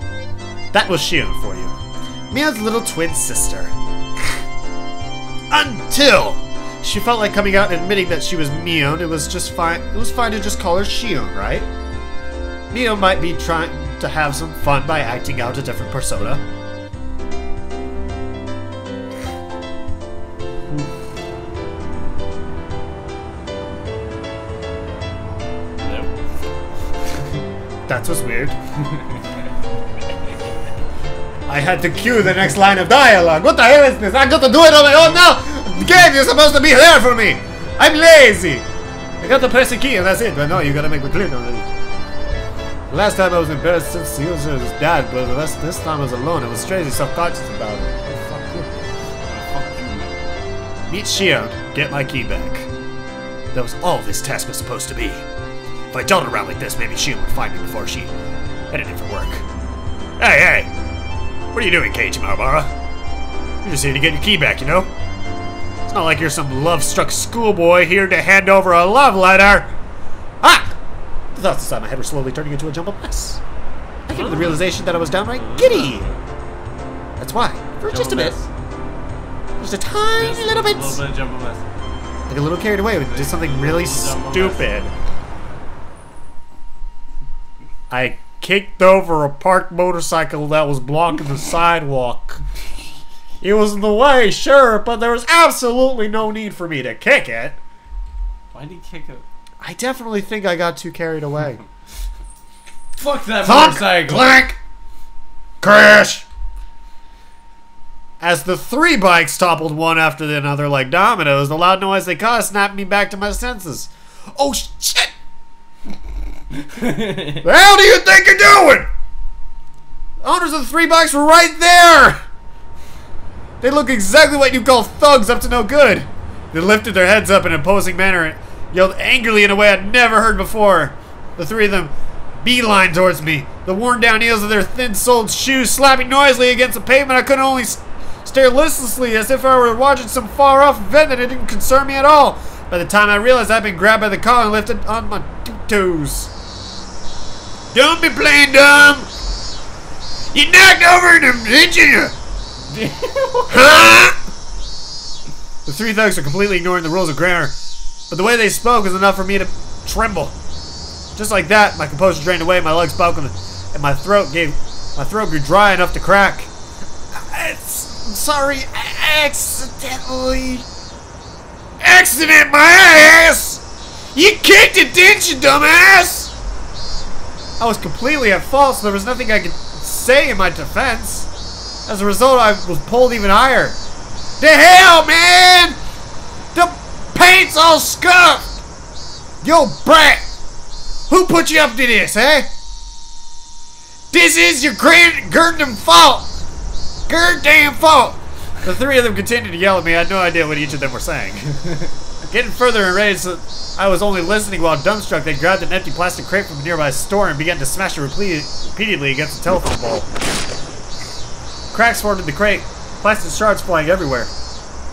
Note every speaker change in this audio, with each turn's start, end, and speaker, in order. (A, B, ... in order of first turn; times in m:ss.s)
0:00.7-0:01.7 A
0:02.3-0:03.7 A
0:05.5-0:11.7 A
0:12.7-0:16.4 A
0:25.8-0:26.1 B
0:27.9-0:28.5 A
0:28.8-0:29.2 B
0:31.5-0:38.6 A
0:39.2-0:41.7 A
0:42.9-0:48.7 A
0:49.2-0:50.4 B
0:50.9-0:52.7 A
0:53.5-0:55.2 A
0:55.9-0:58.1 A
0:58.7-0:59.4 A
1:00.2-1:00.7 A
1:01.5-1:02.7 A
1:03.6-1:04.9 A
1:05.9-1:09.7 A
1:10.4-1:10.7 A
1:11.4-1:13.4 A
1:14.1-1:16.1 A
1:14.1-1:14.7 B
1:15.3-1:16.2 B
1:17.2-1:18.4 A
1:17.8-1:18.5 B
1:19.6-1:21.0 A
1:20.1-1:21.7 B
1:22.3-1:24.9 A
1:23.0-1:24.8 B
1:27.9-1:32.4 A
1:33.4-1:37.6 A
1:38.5-1:39.2 B
1:39.6-1:41.6 A
1:43.0-1:44.4 B
1:43.4-1:44.6 A
1:45.6-1:46.2 A
1:48.2-1:55.1 A
1:56.6-1:57.4 B
1:57.4-1:58.9 A
2:00.2-2:02.2 A
2:03.6-2:26.3 A
2:27.7-2:29.1 A
2:30.3-2:32.1 A
2:32.7-2:33.8 B
2:33.5-2:34.2 A
2:35.6-2:37.5 A
2:38.1-2:40.3 A
2:41.2-2:46.5 A
2:47.1-2:50.6 A
2:51.8-2:53.6 A
2:54.1-2:56.3 A
2:57.6-3:01.3 A
3:01.9-3:03.8 A
3:04.4-3:05.8 A
3:06.5-3:08.6 A
3:09.4-3:10.2 A
3:11.1-3:12.5 A
3:14.1-3:16.3 A
3:17.1-3:30.1 A
3:31.7-3:34.3 A